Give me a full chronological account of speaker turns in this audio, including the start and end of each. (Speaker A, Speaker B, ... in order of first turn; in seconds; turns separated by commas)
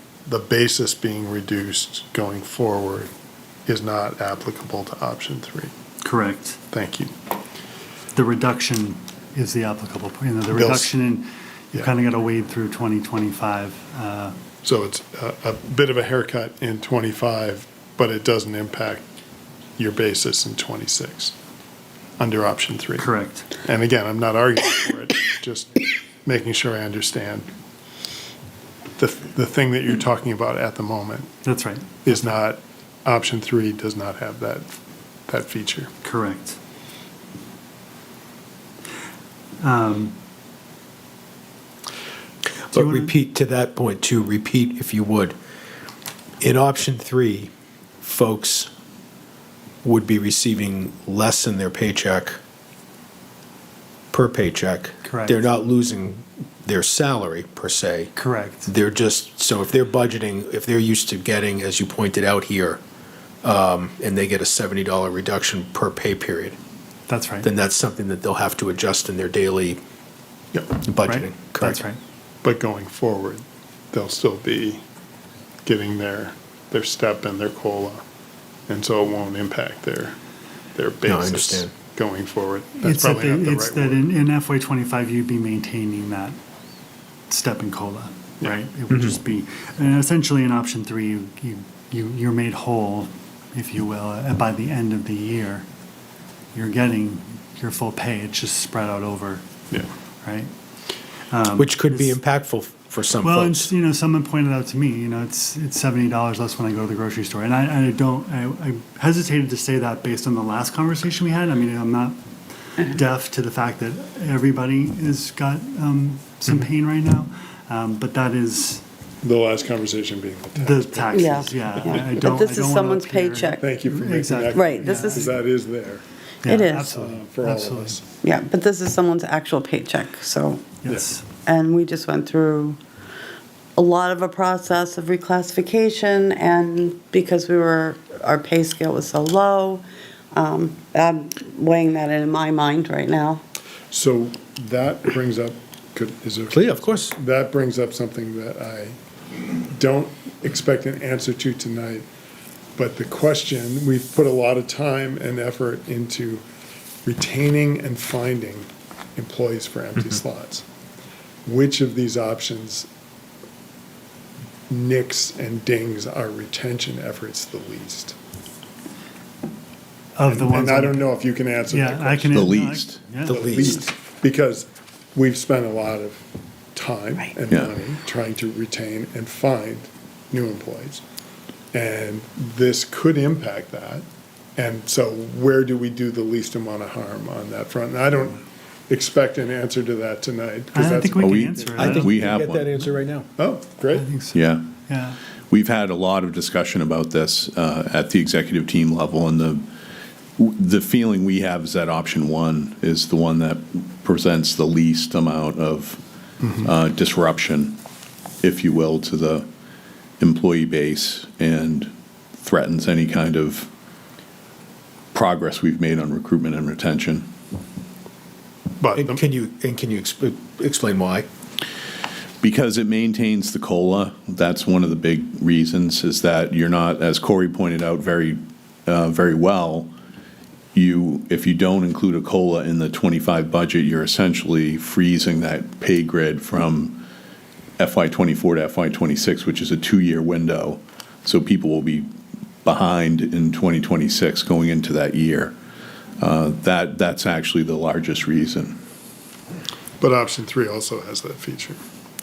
Speaker A: 0.2-3.1, Speaker A: 3.6-5.7, Speaker B: 6.0-6.6, Speaker A: 6.7-7.1, Speaker B: 8.1-14.3, Speaker A: 10.5-10.9, Speaker A: 14.6-19.0, Speaker A: 19.8-21.3, Speaker A: 22.2-27.5, Speaker B: 23.0-23.5, Speaker A: 29.0-31.3, Speaker B: 31.4-32.2, Speaker A: 32.0-34.7, Speaker A: 35.3-35.9, Speaker B: 36.0-36.6, Speaker B: 39.6-40.1, Speaker C: 42.7-45.3, Speaker B: 42.7-43.1, Speaker C: 46.4-47.5, Speaker C: 48.0-48.7, Speaker C: 49.8-52.4, Speaker C: 54.1-62.8, Speaker B: 55.0-55.5, Speaker B: 58.1-58.7, Speaker C: 63.4-66.6, Speaker B: 67.1-67.5, Speaker C: 67.4-69.8, Speaker C: 70.8-71.8, Speaker B: 71.0-72.0, Speaker A: 72.4-74.8, Speaker A: 75.6-78.0, Speaker A: 78.7-80.2, Speaker A: 80.7-84.0, Speaker C: 81.0-81.7, Speaker B: 82.8-86.4, Speaker B: 87.3-95.7, Speaker C: 88.9-89.2, Speaker B: 96.5-99.4, Speaker B: 100.2-100.5, Speaker B: 101.3-102.2, Speaker C: 101.6-103.7, Speaker B: 103.2-112.2, Speaker B: 112.7-118.8, Speaker A: 119.2-122.1, Speaker B: 120.6-125.3, Speaker D: 121.1-123.7, Speaker A: 123.6-126.0, Speaker D: 124.5-125.3, Speaker B: 126.4-128.0, Speaker D: 126.4-127.0, Speaker A: 126.9-128.1, Speaker D: 128.2-130.8, Speaker B: 130.8-131.3, Speaker D: 131.4-132.8, Speaker D: 133.8-143.4, Speaker A: 143.9-148.9, Speaker C: 146.5-147.1, Speaker A: 149.7-152.1, Speaker A: 152.8-156.4, Speaker A: 157.0-160.6, Speaker A: 161.4-162.9, Speaker A: 164.7-168.2, Speaker B: 170.2-171.1, Speaker A: 170.2-172.5, Speaker B: 171.7-173.4, Speaker E: 172.3-173.0, Speaker C: 173.2-173.9, Speaker A: 173.3-176.2, Speaker A: 176.7-181.0, Speaker A: 181.7-184.0, Speaker A: 184.6-192.0, Speaker B: 190.7-192.1, Speaker E: 191.2-192.7, Speaker C: 191.8-193.3, Speaker A: 193.4-194.1, Speaker B: 193.9-195.2, Speaker E: 194.3-194.7, Speaker E: 195.5-199.7, Speaker E: 200.4-206.0, Speaker A: 206.4-206.7, Speaker E: 206.6-207.8, Speaker E: 208.4-209.5, Speaker E: 210.2-211.9, Speaker E: 212.4-213.7, Speaker E: 215.1-217.3, Speaker A: 218.8-219.2, Speaker C: 218.9-221.3, Speaker E: 222.4-229.9, Speaker E: 230.7-237.0, Speaker E: 237.8-242.1, Speaker E: 242.6-245.5, Speaker E: 246.2-248.8, Speaker A: 250.0-251.8